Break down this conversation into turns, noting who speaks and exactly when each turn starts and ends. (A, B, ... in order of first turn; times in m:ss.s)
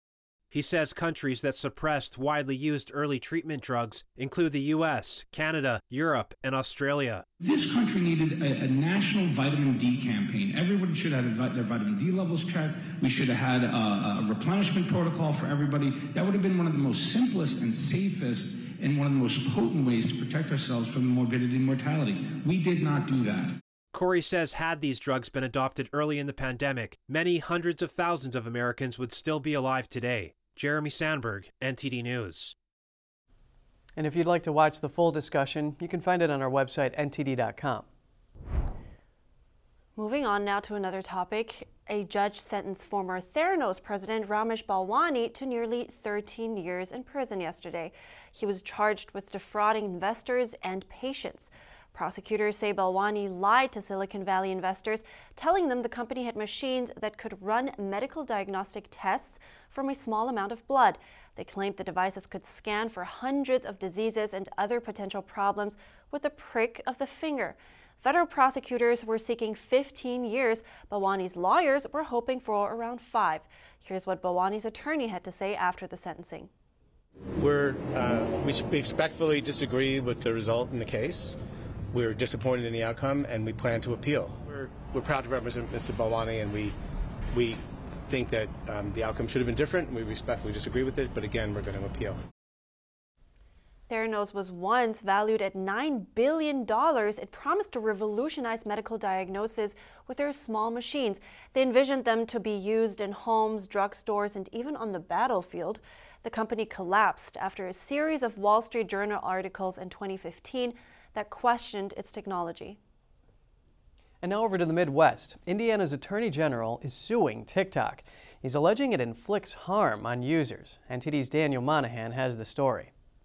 0:00.5-0:07.2 A
0:07.4-0:23.5 B
0:23.9-0:32.6 A
0:34.0-0:37.9 C
0:40.0-1:16.5 D
1:17.4-1:21.4 E
1:21.9-1:26.8 E
1:27.3-1:32.2 E
1:33.9-1:52.8 D
1:54.2-2:02.9 C